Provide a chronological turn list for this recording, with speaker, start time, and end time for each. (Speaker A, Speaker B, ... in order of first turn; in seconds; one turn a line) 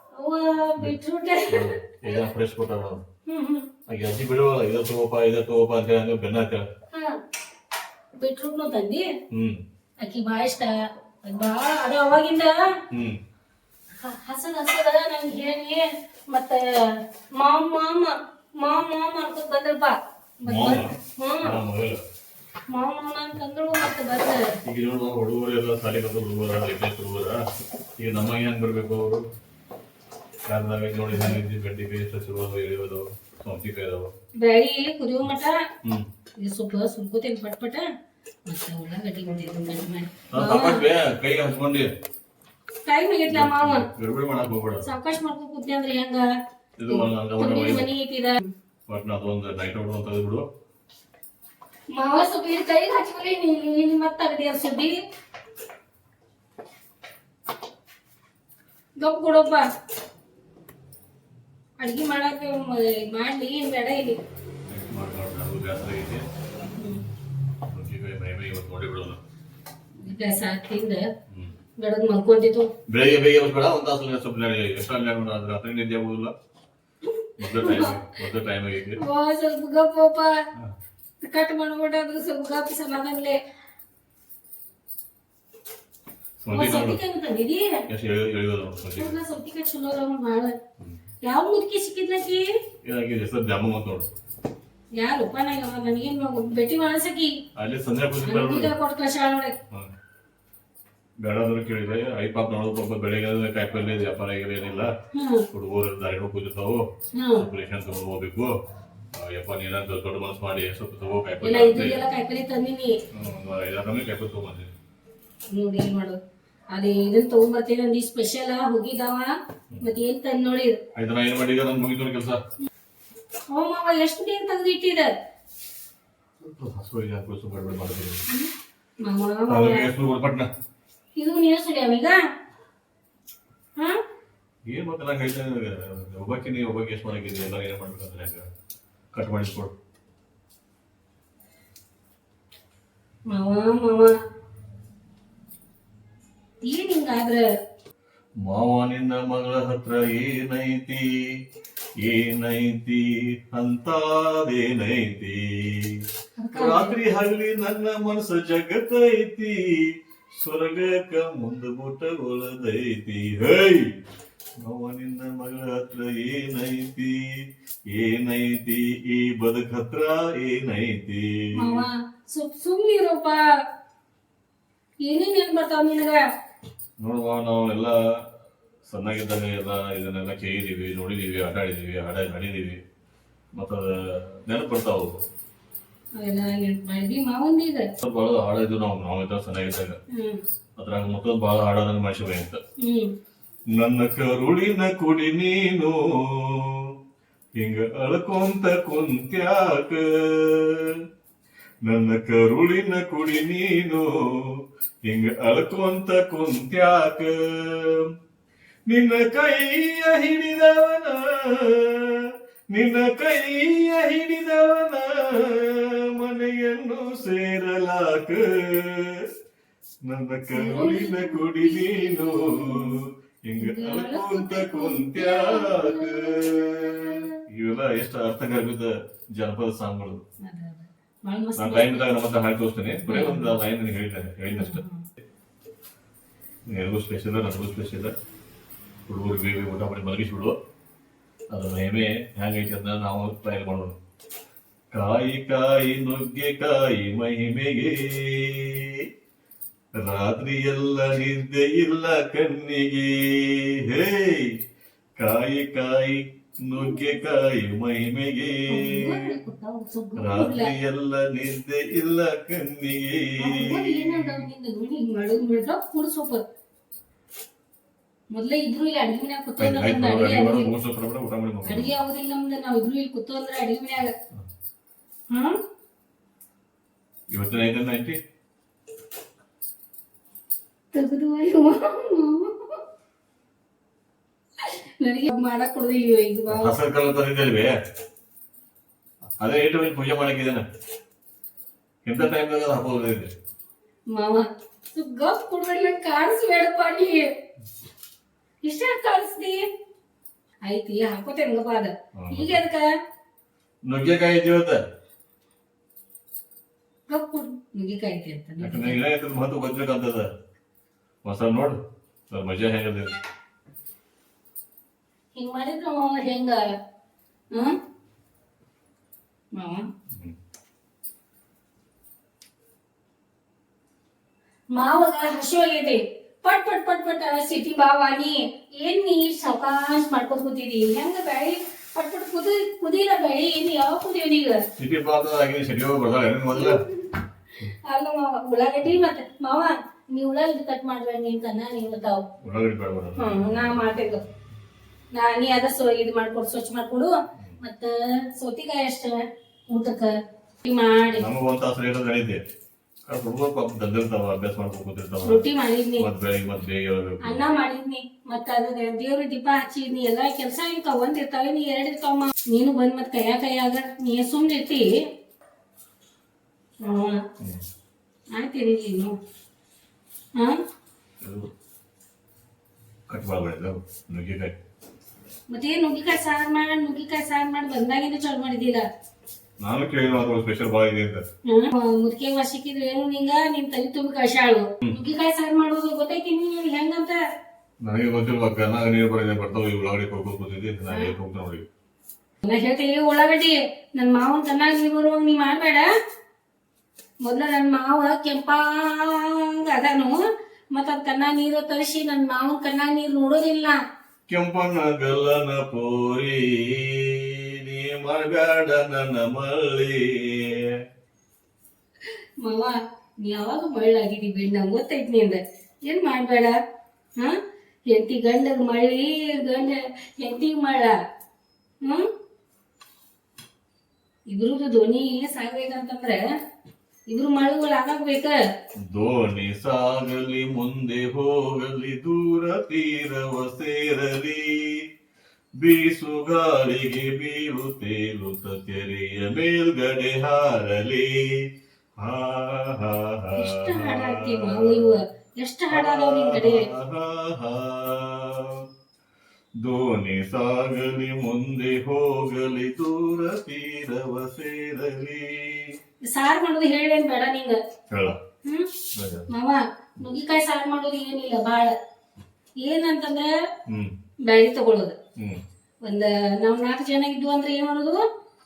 Speaker A: 0.1-1.8
Speaker B: 1.5-3.0
Speaker A: 3.3-3.7
Speaker B: 3.9-6.7
Speaker A: 6.9-7.2
Speaker A: 8.2-9.0
Speaker B: 9.3-9.6
Speaker A: 10.0-12.6
Speaker B: 12.9-13.2
Speaker A: 14.0-21.6
Speaker B: 20.5-22.0
Speaker A: 22.7-24.5
Speaker B: 24.6-27.4
Speaker B: 28.0-29.3
Speaker B: 30.4-34.1
Speaker A: 34.4-35.6
Speaker A: 36.4-37.9
Speaker A: 38.5-40.8
Speaker B: 40.3-41.9
Speaker A: 42.8-43.9
Speaker B: 43.3-44.8
Speaker A: 44.8-46.3
Speaker B: 46.8-47.9
Speaker A: 46.9-48.5
Speaker B: 48.9-50.5
Speaker A: 51.9-55.0
Speaker A: 59.0-59.6
Speaker A: 61.8-64.2
Speaker B: 64.7-66.2
Speaker A: 66.7-67.0
Speaker B: 67.6-69.2
Speaker A: 70.0-71.1
Speaker B: 71.3-71.6
Speaker A: 71.8-72.7
Speaker B: 72.9-76.3
Speaker B: 77.4-79.0
Speaker A: 77.5-78.0
Speaker A: 79.0-80.3
Speaker A: 81.2-83.4
Speaker B: 86.4-87.0
Speaker A: 86.5-87.8
Speaker B: 87.9-89.2
Speaker A: 89.0-90.5
Speaker A: 91.2-92.5
Speaker B: 92.8-94.1
Speaker A: 95.0-97.3
Speaker B: 97.5-98.7
Speaker A: 98.2-99.6
Speaker B: 101.2-104.9
Speaker A: 105.1-105.4
Speaker B: 105.5-108.5
Speaker A: 107.1-107.5
Speaker B: 109.1-112.0
Speaker A: 111.4-113.0
Speaker B: 113.1-114.7
Speaker A: 115.5-116.2
Speaker A: 116.7-120.8
Speaker B: 120.9-122.4
Speaker A: 123.5-125.1
Speaker B: 126.4-128.2
Speaker A: 129.0-129.9
Speaker B: 129.5-130.5
Speaker A: 131.2-132.2
Speaker B: 134.7-138.4
Speaker B: 139.1-139.7
Speaker A: 143.3-144.1
Speaker A: 146.7-147.4
Speaker B: 148.4-151.2
Speaker B: 152.0-163.9
Speaker A: 156.4-156.9
Speaker B: 164.6-171.9
Speaker A: 171.6-173.4
Speaker A: 175.0-176.2
Speaker B: 177.0-177.9
Speaker B: 178.8-182.8
Speaker B: 183.5-185.2
Speaker A: 186.2-187.9
Speaker B: 188.0-190.0
Speaker A: 190.1-190.4
Speaker B: 190.8-192.6
Speaker A: 192.8-193.1
Speaker B: 193.7-196.9
Speaker B: 197.6-201.0
Speaker B: 201.8-208.1
Speaker B: 208.9-219.3
Speaker B: 220.0-230.2
Speaker A: 220.5-223.0
Speaker A: 223.6-227.4
Speaker A: 230.4-232.1
Speaker B: 231.6-234.8
Speaker A: 233.1-233.6
Speaker A: 234.5-235.1
Speaker B: 236.7-238.1
Speaker B: 239.1-240.6
Speaker B: 241.5-244.0
Speaker B: 244.9-249.1
Speaker B: 250.0-254.6
Speaker B: 255.2-259.3
Speaker A: 258.7-260.7
Speaker B: 260.2-264.5
Speaker A: 263.4-266.4
Speaker A: 268.3-270.7
Speaker B: 269.6-271.9
Speaker A: 271.6-274.1
Speaker A: 275.3-275.6
Speaker B: 277.3-278.2
Speaker A: 280.9-282.8
Speaker A: 284.6-286.8
Speaker B: 286.5-287.7
Speaker B: 289.4-290.6
Speaker B: 292.0-293.3
Speaker A: 294.1-297.3
Speaker A: 298.6-299.6
Speaker A: 300.6-302.9
Speaker B: 302.1-302.6
Speaker B: 303.9-304.8
Speaker A: 307.1-309.0
Speaker B: 308.6-310.3
Speaker B: 311.2-311.8
Speaker B: 312.3-313.1
Speaker A: 315.4-316.6
Speaker A: 317.5-317.8
Speaker A: 319.5-319.9
Speaker B: 320.1-320.4
Speaker A: 324.7-334.6
Speaker B: 334.8-336.8
Speaker A: 337.5-342.2
Speaker B: 342.4-343.8
Speaker A: 343.2-344.2
Speaker A: 345.1-350.1
Speaker A: 350.6-351.2
Speaker B: 351.1-352.4
Speaker B: 353.1-355.5
Speaker A: 355.2-356.1
Speaker B: 356.0-357.4
Speaker A: 357.2-364.9
Speaker A: 366.8-367.2
Speaker A: 368.3-369.2
Speaker B: 371.2-371.5
Speaker B: 373.1-374.6
Speaker A: 375.5-378.9
Speaker B: 379.6-381.2
Speaker A: 381.4-387.2
Speaker B: 387.8-391.6
Speaker A: 392.4-395.9
Speaker A: 397.2-400.2
Speaker A: 400.7-403.8
Speaker B: 404.3-410.8
Speaker A: 412.4-416.5
Speaker A: 417.9-420.9
Speaker A: 421.8-422.1
Speaker A: 424.3-426.2
Speaker A: 427.1-428.3
Speaker B: 428.9-434.9
Speaker B: 435.6-445.0
Speaker A: 443.4-446.6
Speaker B: 445.7-448.7
Speaker B: 449.6-455.8
Speaker A: 456.1-457.6
Speaker B: 457.9-458.2
Speaker A: 458.4-458.7
Speaker B: 458.9-459.3
Speaker A: 459.3-461.7
Speaker A: 462.6-463.3
Speaker B: 463.7-463.9
Speaker A: 464.2-464.9
Speaker B: 465.2-465.4
Speaker A: 465.8-468.0